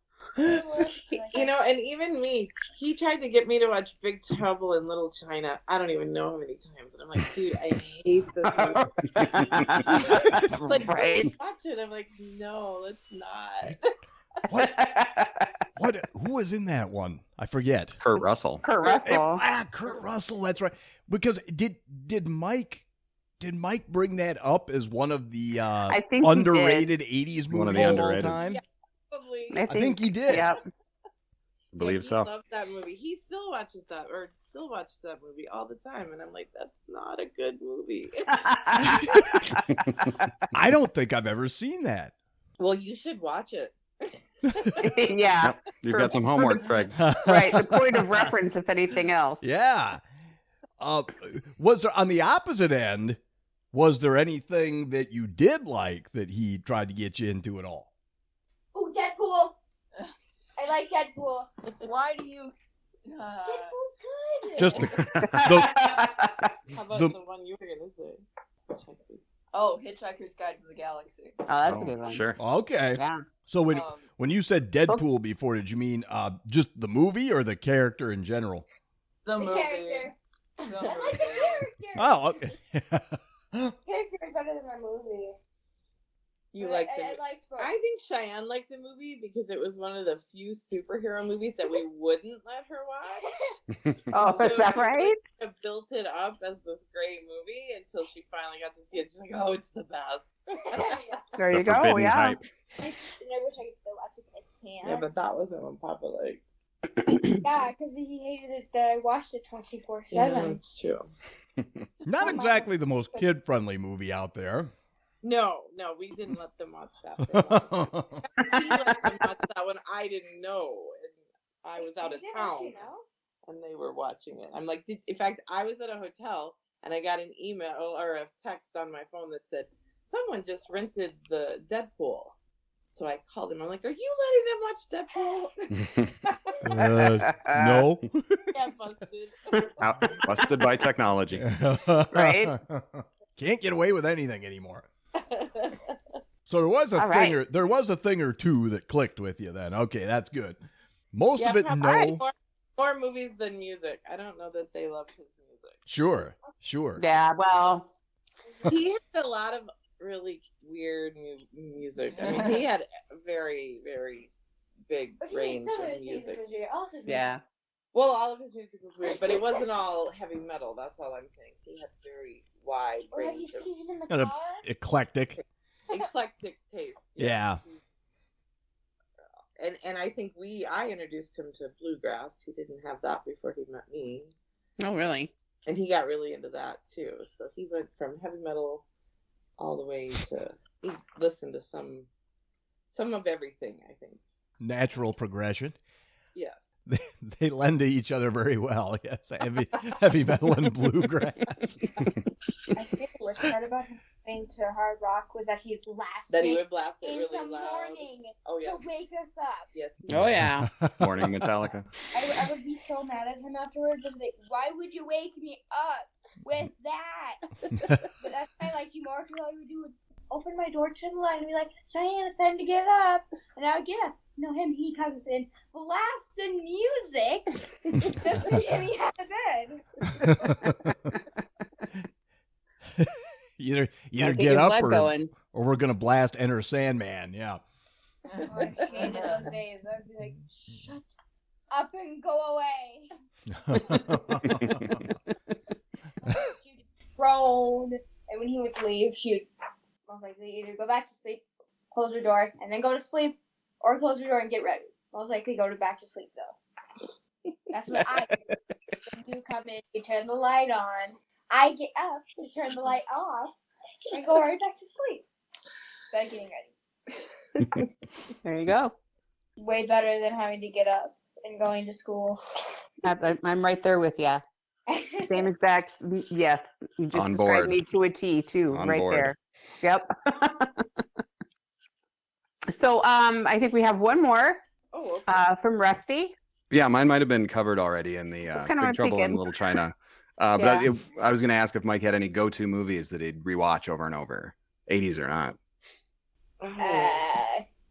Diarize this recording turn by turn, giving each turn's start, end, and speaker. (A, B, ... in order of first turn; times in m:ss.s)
0:00.4-0:01.5 A
0:01.3-0:08.9 B
0:08.6-0:11.3 C
0:10.0-0:13.9 B
0:14.5-0:15.5 C
0:15.8-0:18.0 D
0:18.0-0:18.6 E
0:18.1-0:19.4 C
0:19.0-0:22.8 D
0:23.4-0:28.6 D
0:25.9-0:26.9 C
0:27.5-0:28.4 E
0:28.4-0:29.6 B
0:29.5-0:30.6 C
0:29.7-0:30.5 D
0:31.7-0:32.3 E
0:31.8-0:38.9 B
0:38.3-0:40.1 C
0:38.9-0:39.2 D
0:40.5-0:42.1 D
0:42.6-0:45.1 B
0:44.5-0:44.8 D
0:44.8-0:49.5 C
0:45.4-0:47.0 E
0:46.9-0:48.3 D
0:49.4-0:50.0 D
0:50.8-0:53.2 D
0:53.7-0:57.9 D
0:58.7-0:59.6 A
1:00.6-1:01.5 A
1:01.8-1:03.8 F
1:03.4-1:05.3 A
1:04.6-1:05.8 D
1:04.8-1:05.4 E
1:05.2-1:06.5 C
1:06.7-1:09.2 B
1:09.5-1:11.4 F
1:11.5-1:12.2 C
1:11.6-1:12.4 E
1:12.4-1:18.6 D
1:12.9-1:13.2 C
1:13.7-1:14.1 F
1:19.2-1:21.6 F
1:19.4-1:22.6 A
1:20.8-1:21.4 B
1:21.9-1:23.8 D
1:23.8-1:25.4 A
1:26.5-1:33.3 B
1:26.6-1:27.7 A
1:33.1-1:33.5 A
1:34.1-1:41.2 B
1:34.1-1:35.2 C
1:40.7-1:41.2 A
1:41.4-1:42.4 C
1:41.5-1:42.4 E
1:42.8-1:45.1 A
1:44.8-1:46.4 B
1:47.4-1:50.6 A
1:50.1-1:51.1 B
1:52.0-1:54.7 D
1:52.1-1:53.3 A
1:55.2-2:02.8 B
1:57.2-1:58.2 D
1:58.5-1:58.9 C
2:01.8-2:03.0 A
2:03.4-2:12.3 B
2:12.9-2:15.7 B
2:16.6-2:18.6 D
2:16.7-2:17.9 C
2:18.5-2:19.8 B
2:19.8-2:21.5 E
2:21.3-2:24.8 D
2:22.1-2:22.6 C
2:25.2-2:25.9 B
2:26.4-2:30.6 D
2:27.0-2:27.4 C
2:31.1-2:32.2 D
2:31.4-2:35.8 B
2:35.8-2:37.0 D
2:37.0-2:37.9 C
2:38.6-2:46.4 B
2:42.1-2:42.7 F
2:45.2-2:47.3 A
2:47.1-2:47.4 C
2:47.9-2:53.7 B
2:53.1-2:54.6 A
2:54.1-2:55.4 D
2:55.4-2:57.8 B
2:57.2-2:57.6 D
2:59.6-3:04.3 B
3:04.8-3:05.3 C
3:05.6-3:08.8 B
3:09.6-3:12.1 B
3:12.9-3:14.2 B
3:14.6-3:15.8 D
3:16.3-3:16.7 B
3:16.9-3:22.1 D
3:22.7-3:29.7 A
3:26.3-3:28.9 B
3:29.7-3:30.4 B
3:30.1-3:30.7 C
3:30.1-3:31.3 D
3:31.0-3:31.9 E
3:32.1-3:37.4 A
3:38.2-3:49.8 A
3:50.1-3:51.0 D
3:53.0-3:57.6 D
3:54.2-3:55.3 C
3:58.3-3:59.5 F
3:58.4-4:01.1 A
4:01.7-4:03.1 A
4:03.5-4:05.0 D
4:06.2-4:09.5 A
4:10.1-4:16.6 A
4:17.7-4:18.4 A
4:19.1-4:23.5 A
4:24.1-4:25.2 A
4:26.1-4:26.7 A
4:28.4-4:28.9 C
4:29.6-4:32.4 A
4:33.0-4:34.4 C
4:34.9-4:35.5 A
4:35.2-4:40.8 C
4:37.1-4:37.8 E
4:38.7-4:39.3 E
4:42.7-4:44.6 C
4:44.9-4:45.5 B
4:45.3-4:46.3 C
4:46.7-4:55.6 E
4:48.5-4:49.4 C
4:50.6-4:50.9 C
4:56.6-4:57.2 B
4:56.8-4:57.6 A